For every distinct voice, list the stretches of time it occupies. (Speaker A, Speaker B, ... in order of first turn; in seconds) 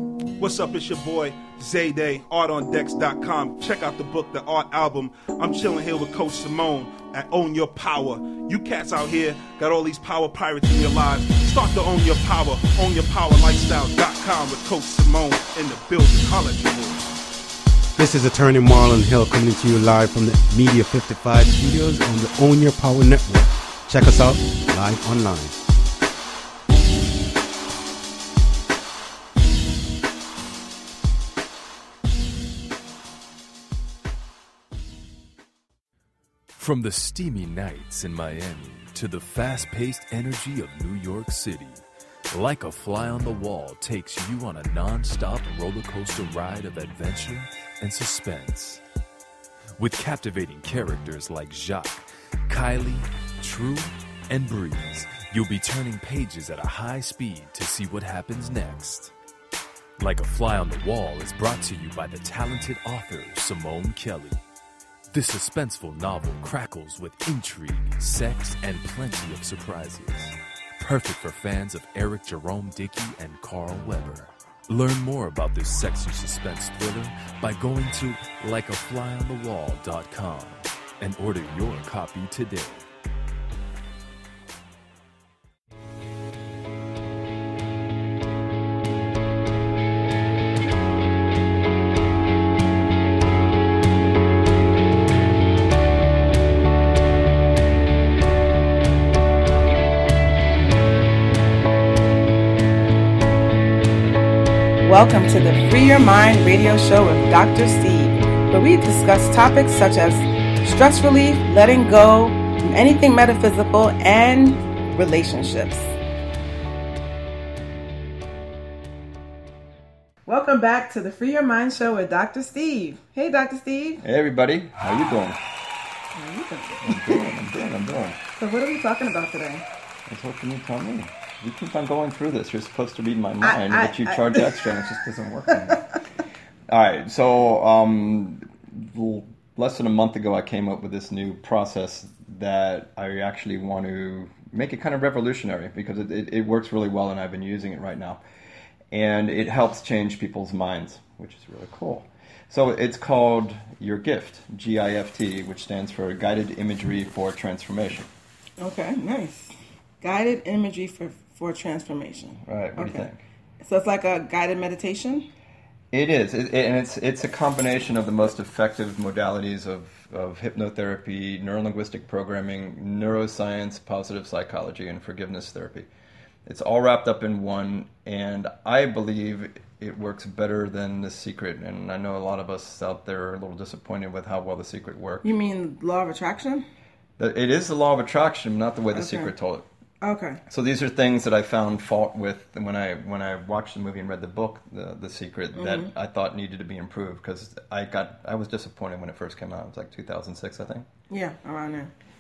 Speaker A: 0.4-17.1
Speaker B: 17.9-25.6
Speaker C: 36.6-48.8, 49.8-59.1, 60.0-64.4, 65.1-82.9
Speaker D: 104.8-115.9, 120.3-124.0, 126.1-127.3, 128.3-129.7, 133.4-134.8, 135.5-135.8, 158.6-163.1, 163.6-165.3, 185.2-186.6, 188.9-189.3, 190.0-190.4, 195.5-195.9, 201.1-201.9
Speaker E: 124.0-125.4, 126.8-128.2, 130.1-135.8, 136.7-148.2, 148.9-158.1, 162.4-163.2, 165.9-175.9, 176.4-185.3, 187.2-189.7, 190.5-200.8